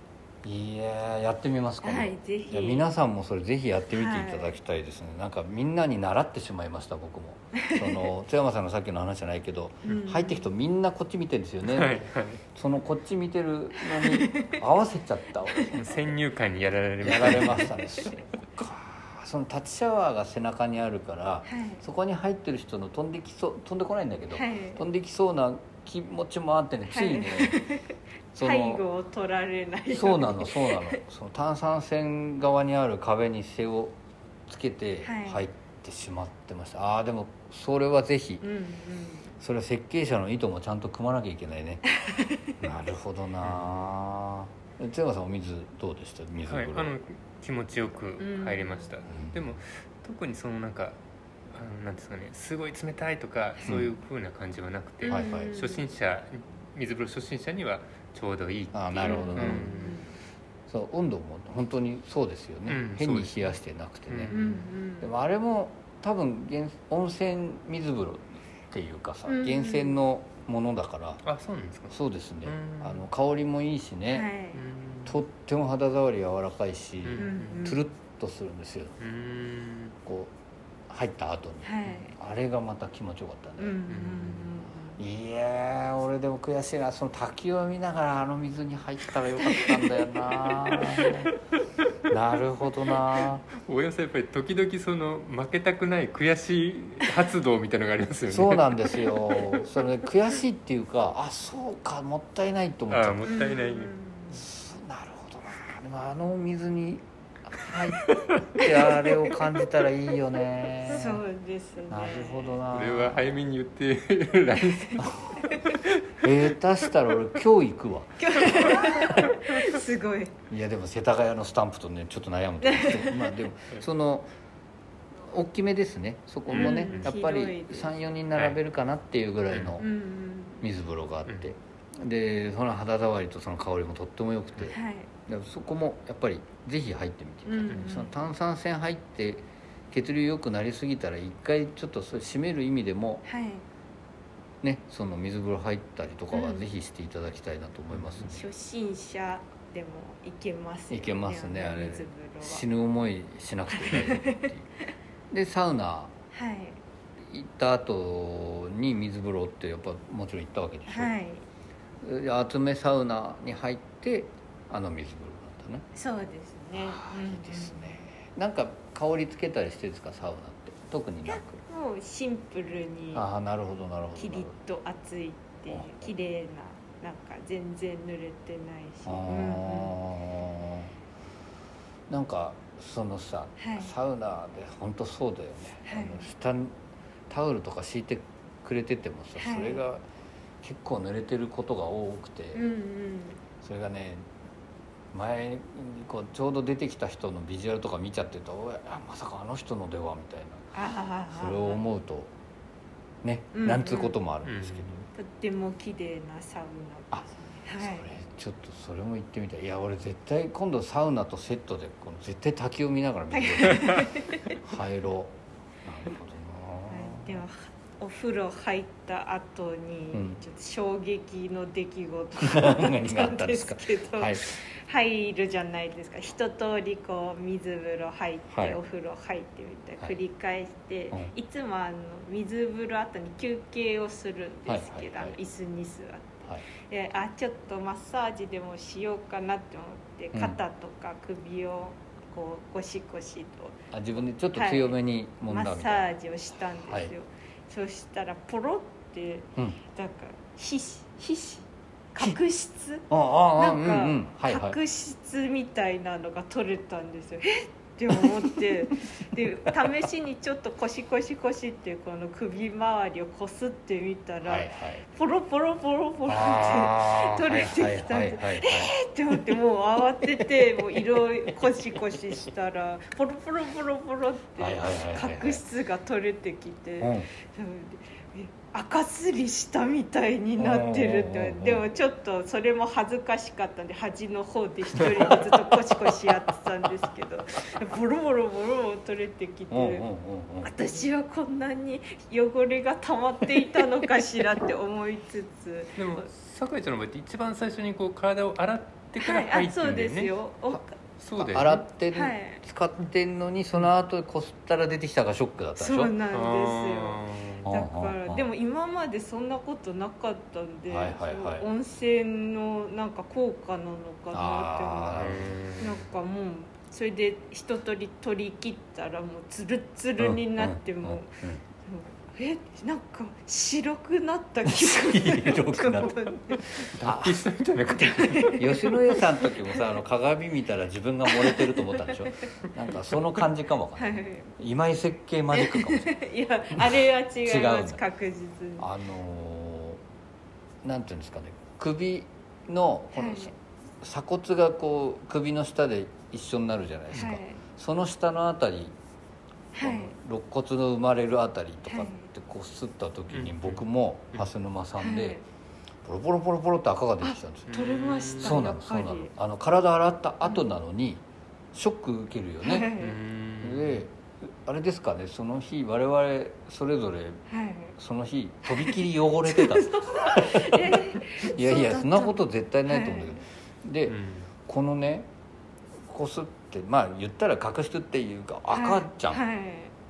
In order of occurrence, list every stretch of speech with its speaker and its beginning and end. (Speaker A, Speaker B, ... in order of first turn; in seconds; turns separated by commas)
Speaker A: 0.4-16.0, Speaker B: 1.8-2.8, Speaker B: 3.9-4.5, Speaker B: 9.8-10.5, Speaker C: 11.6-12.4, Speaker B: 13.9-14.6, Speaker C: 15.7-17.8, Speaker A: 17.0-27.6, Speaker B: 21.5-21.8, Speaker B: 24.3-24.8, Speaker B: 26.9-31.0, Speaker A: 28.3-28.8, Speaker A: 29.9-33.9, Speaker A: 34.5-38.4, Speaker B: 35.0-35.4, Speaker B: 38.4-39.3, Speaker A: 39.4-41.8, Speaker B: 42.0-42.5, Speaker A: 42.6-47.0, Speaker C: 43.4-43.7, Speaker C: 46.5-51.0, Speaker B: 48.2-49.0, Speaker A: 49.1-49.4, Speaker C: 51.5-60.0, Speaker A: 53.6-53.9, Speaker B: 55.0-55.9, Speaker A: 55.0-55.5, Speaker A: 58.7-59.8, Speaker B: 59.0-60.1, Speaker A: 60.7-64.3, Speaker C: 62.7-63.5, Speaker C: 64.1-64.6, Speaker B: 64.3-65.1, Speaker A: 65.0-71.2, Speaker B: 69.3-70.0, Speaker C: 71.2-73.0, Speaker A: 71.9-74.3, Speaker B: 74.1-74.6, Speaker C: 74.5-75.2, Speaker A: 75.0-79.0, Speaker C: 77.0-77.7, Speaker B: 77.2-77.8, Speaker C: 79.0-80.0, Speaker A: 80.0-80.3, Speaker A: 80.9-83.8, Speaker B: 81.6-82.1, Speaker B: 83.6-85.0, Speaker C: 83.9-84.6, Speaker A: 85.0-91.3, Speaker B: 89.4-89.9, Speaker B: 90.6-91.1, Speaker A: 92.1-93.5, Speaker C: 93.5-99.0, Speaker A: 98.3-103.3, Speaker C: 102.9-103.9, Speaker B: 103.3-104.4, Speaker A: 104.3-111.2, Speaker C: 108.1-108.4, Speaker B: 110.8-112.6, Speaker A: 111.9-113.4, Speaker C: 112.7-116.1, Speaker B: 115.3-115.8, Speaker A: 116.2-118.8, Speaker B: 118.2-120.3, Speaker A: 120.5-124.3, Speaker B: 122.6-123.3, Speaker A: 125.2-129.9, Speaker B: 126.5-127.9, Speaker C: 126.5-127.1, Speaker C: 129.5-129.8, Speaker B: 129.8-130.6, Speaker A: 130.6-143.2, Speaker B: 134.7-135.1, Speaker B: 137.4-138.2, Speaker B: 143.2-143.6, Speaker A: 144.6-148.4, Speaker B: 146.3-146.6, Speaker C: 147.9-148.2, Speaker B: 148.2-152.7, Speaker A: 150.9-154.7, Speaker B: 153.7-154.5, Speaker A: 155.3-156.1, Speaker B: 156.3-156.8, Speaker A: 157.2-161.1, Speaker B: 160.9-161.4, Speaker A: 162.0-165.8, Speaker B: 165.9-168.1, Speaker A: 166.7-171.6, Speaker B: 171.3-173.2, Speaker A: 173.1-174.5, Speaker B: 174.2-180.0, Speaker A: 179.1-180.9, Speaker A: 182.1-186.8, Speaker B: 183.6-183.9, Speaker B: 185.8-186.3, Speaker A: 187.3-190.0, Speaker B: 189.4-189.8, Speaker A: 190.6-192.6, Speaker B: 192.5-193.4, Speaker A: 193.6-194.3, Speaker A: 195.1-200.7, Speaker B: 200.7-201.8, Speaker A: 201.3-202.3, Speaker A: 203.2-204.9, Speaker B: 203.5-204.1, Speaker C: 204.4-205.1, Speaker B: 205.1-208.1, Speaker A: 207.8-217.4, Speaker B: 213.3-214.6, Speaker B: 216.9-243.8, Speaker A: 220.1-220.4, Speaker A: 222.4-224.5, Speaker A: 228.5-228.8, Speaker A: 234.7-235.4, Speaker A: 240.3-240.6, Speaker A: 243.9-246.1, Speaker B: 244.5-245.0, Speaker B: 245.5-290.0, Speaker A: 246.8-247.1, Speaker A: 253.1-254.8, Speaker A: 258.1-258.5, Speaker A: 264.4-265.0, Speaker A: 266.3-268.9, Speaker A: 274.6-275.6, Speaker A: 277.0-277.3, Speaker A: 280.6-281.9, Speaker A: 289.7-290.7, Speaker B: 290.6-296.3, Speaker C: 296.0-300.3, Speaker B: 299.2-300.9, Speaker C: 301.2-301.8, Speaker A: 301.4-306.1, Speaker B: 302.1-302.6, Speaker B: 305.8-315.2, Speaker C: 306.3-307.7, Speaker A: 307.6-308.4, Speaker A: 310.9-311.7, Speaker A: 314.3-315.6, Speaker C: 315.1-316.0, Speaker B: 315.8-326.8, Speaker A: 320.2-321.6, Speaker A: 324.6-327.4, Speaker C: 326.7-328.6, Speaker B: 328.1-329.2, Speaker A: 328.5-336.1, Speaker B: 331.4-332.0, Speaker B: 333.9-334.5, Speaker B: 335.5-338.9, Speaker A: 336.7-338.0, Speaker A: 338.8-340.0, Speaker A: 340.8-348.9, Speaker B: 343.1-343.5, Speaker B: 347.1-347.6, Speaker B: 349.7-350.1, Speaker A: 349.8-355.4, Speaker B: 351.9-352.3, Speaker C: 353.3-354.5, Speaker B: 355.0-355.4, Speaker A: 356.0-357.7, Speaker B: 357.2-359.3, Speaker C: 357.7-358.6, Speaker A: 358.4-362.9, Speaker B: 362.6-363.2, Speaker C: 362.9-364.0, Speaker A: 363.6-367.4, Speaker B: 367.5-367.9, Speaker A: 368.0-375.3, Speaker B: 368.7-373.4, Speaker C: 374.1-374.5, Speaker A: 376.1-379.4, Speaker B: 378.7-379.9